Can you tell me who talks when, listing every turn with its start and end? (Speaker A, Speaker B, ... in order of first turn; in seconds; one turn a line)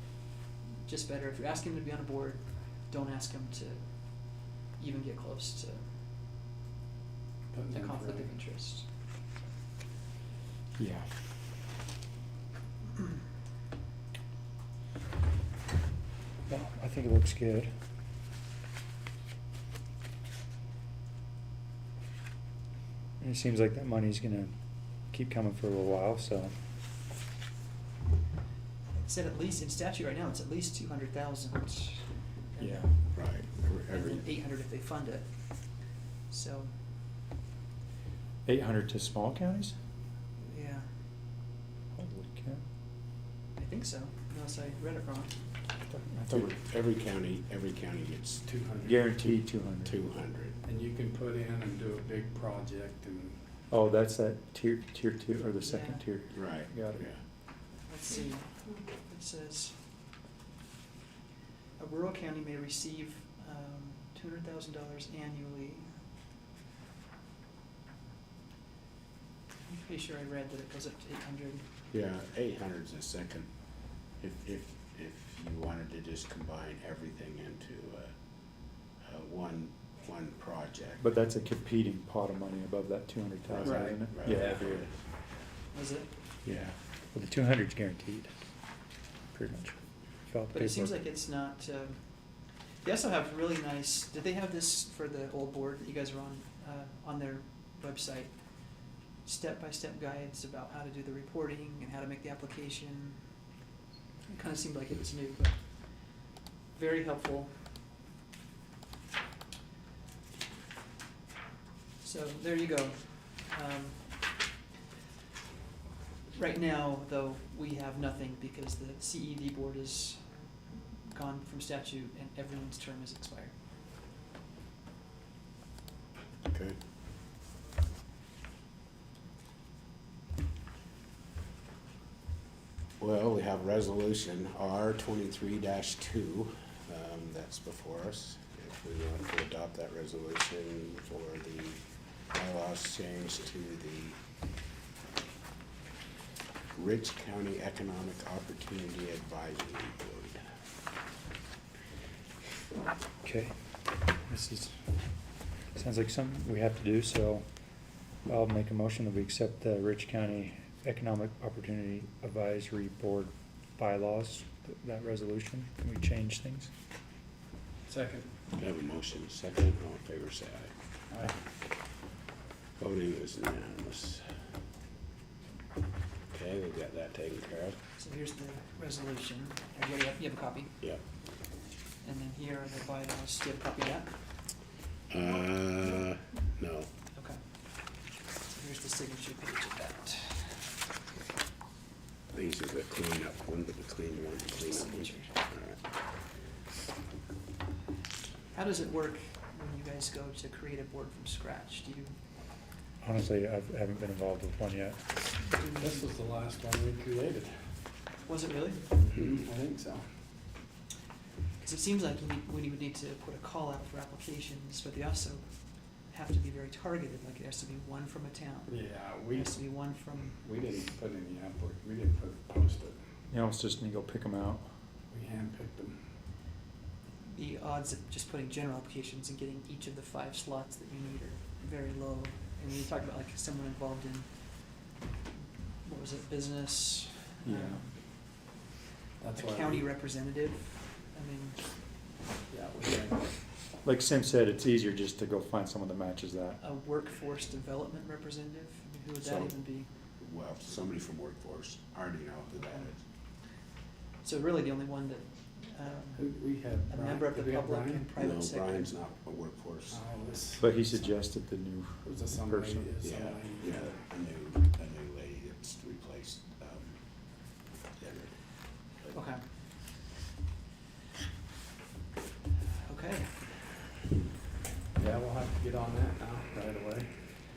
Speaker A: 0.8-5.8
Speaker B: 7.5-8.3
Speaker A: 7.7-8.9
Speaker C: 10.8-11.1
Speaker C: 16.5-17.7
Speaker C: 23.2-24.5
Speaker C: 25.1-26.5
Speaker A: 28.9-32.9
Speaker C: 32.6-33.0
Speaker D: 33.1-34.2
Speaker A: 33.9-36.7
Speaker C: 38.4-39.7
Speaker A: 40.4-40.9
Speaker C: 41.9-42.6
Speaker A: 43.5-45.4
Speaker C: 45.9-46.5
Speaker D: 46.3-48.5
Speaker B: 48.5-49.0
Speaker C: 48.8-50.0
Speaker D: 49.8-50.5
Speaker B: 50.6-53.4
Speaker C: 53.7-57.1
Speaker A: 55.6-56.0
Speaker D: 56.3-57.2
Speaker A: 57.8-59.8
Speaker A: 61.8-66.0
Speaker A: 69.6-71.7
Speaker D: 71.9-73.5
Speaker D: 74.2-78.1
Speaker D: 79.0-81.0
Speaker C: 81.0-84.9
Speaker D: 83.5-84.9
Speaker B: 83.6-84.6
Speaker A: 85.7-86.1
Speaker C: 86.4-88.3
Speaker C: 89.3-89.7
Speaker C: 90.3-91.0
Speaker A: 90.5-92.0
Speaker A: 92.8-103.2
Speaker A: 104.3-107.5
Speaker A: 112.0-114.1
Speaker A: 116.3-120.3
Speaker A: 121.1-123.5
Speaker D: 126.5-126.8
Speaker D: 133.0-141.8
Speaker D: 142.3-144.2
Speaker D: 146.7-150.4
Speaker C: 153.2-153.5
Speaker C: 154.1-154.9
Speaker C: 155.7-157.4
Speaker C: 158.2-166.7
Speaker B: 167.9-168.3
Speaker D: 168.5-170.7
Speaker B: 171.1-171.4
Speaker D: 172.8-174.2
Speaker D: 176.3-177.8
Speaker A: 178.0-180.8
Speaker A: 182.0-184.2
Speaker D: 185.1-186.9
Speaker A: 187.2-187.4
Speaker A: 188.4-190.6
Speaker D: 192.3-195.8
Speaker A: 194.5-195.3
Speaker A: 198.5-202.1
Speaker C: 203.0-205.0
Speaker A: 205.4-206.0
Speaker B: 205.8-207.7
Speaker A: 208.2-208.9
Speaker B: 208.9-210.1
Speaker A: 211.6-220.4
Speaker B: 218.7-219.7
Speaker B: 220.3-223.0
Speaker C: 223.3-224.6
Speaker B: 225.1-226.0
Speaker A: 227.2-234.8
Speaker A: 235.8-237.9
Speaker C: 237.4-237.8
Speaker B: 239.2-239.8
Speaker A: 239.3-241.6
Speaker B: 242.5-243.3
Speaker C: 243.8-246.6
Speaker A: 246.6-249.9
Speaker D: 249.2-249.5
Speaker D: 250.2-253.0
Speaker A: 254.2-256.2
Speaker B: 256.1-258.1
Speaker A: 256.9-259.0
Speaker D: 258.2-260.0
Speaker B: 259.9-261.1
Speaker C: 260.6-262.9
Speaker B: 262.0-264.0
Speaker D: 263.0-267.0
Speaker D: 268.0-268.3
Speaker A: 269.1-269.4
Speaker A: 272.8-273.5
Speaker B: 274.9-277.1